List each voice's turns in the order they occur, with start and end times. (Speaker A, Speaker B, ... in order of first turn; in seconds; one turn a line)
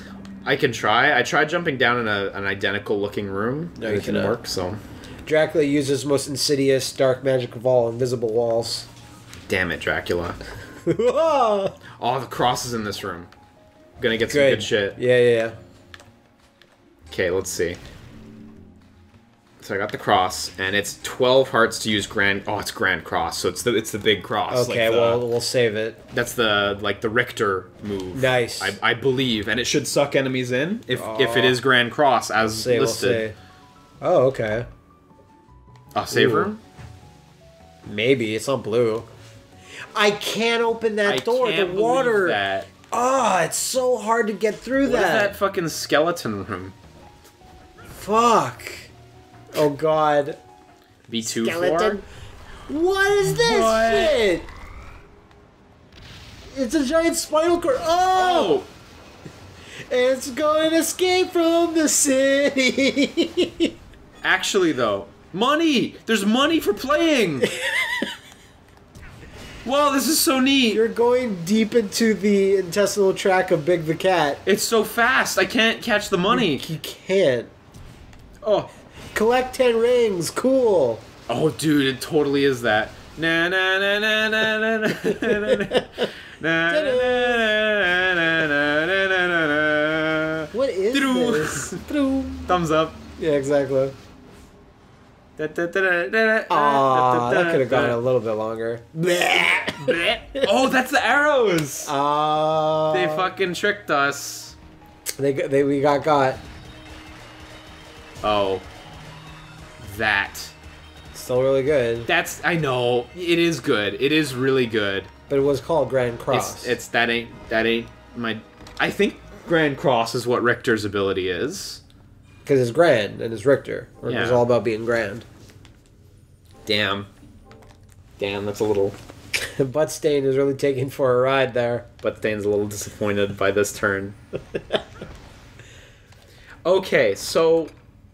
Speaker A: 0.4-4.8
Speaker B: 3.8-4.3
Speaker B: 5.2-8.9
Speaker A: 9.5-10.4
Speaker B: 10.8-11.8
Speaker A: 12.0-13.3
Speaker A: 14.0-15.0
Speaker B: 14.3-15.6
Speaker A: 17.1-17.8
Speaker A: 19.6-25.2
Speaker B: 24.5-26.0
Speaker A: 26.1-33.2
Speaker B: 28.1-28.8
Speaker B: 30.9-31.6
Speaker B: 32.4-33.4
Speaker B: 34.0-34.7
Speaker A: 35.9-36.6
Speaker B: 36.1-36.5
Speaker B: 37.8-39.1
Speaker B: 39.9-45.3
Speaker A: 41.0-42.7
Speaker A: 44.8-46.7
Speaker B: 47.9-48.9
Speaker B: 49.5-50.4
Speaker A: 51.1-52.0
Speaker B: 51.2-52.0
Speaker B: 52.7-54.5
Speaker A: 53.4-54.2
Speaker B: 56.5-58.6
Speaker A: 58.1-58.7
Speaker B: 59.9-63.7
Speaker A: 64.2-67.5
Speaker B: 67.4-68.1
Speaker A: 69.6-70.8
Speaker B: 70.7-74.4
Speaker A: 74.4-76.6
Speaker B: 76.3-77.5
Speaker B: 78.4-81.0
Speaker A: 81.3-91.8
Speaker B: 85.0-86.1
Speaker B: 86.7-87.5
Speaker B: 90.5-92.5
Speaker A: 92.5-93.0
Speaker B: 93.2-93.9
Speaker A: 95.4-98.0
Speaker B: 96.5-100.5
Speaker A: 99.8-101.9
Speaker B: 101.8-103.3
Speaker A: 102.9-104.6
Speaker B: 105.2-106.4
Speaker A: 108.2-108.6
Speaker A: 109.8-110.5
Speaker B: 111.1-112.1
Speaker A: 112.1-115.1
Speaker B: 115.3-116.8
Speaker A: 116.3-121.8
Speaker B: 122.5-125.2
Speaker A: 124.0-124.4
Speaker A: 126.6-127.1
Speaker A: 128.2-128.9
Speaker B: 129.4-131.9
Speaker A: 132.0-134.2
Speaker A: 136.6-137.7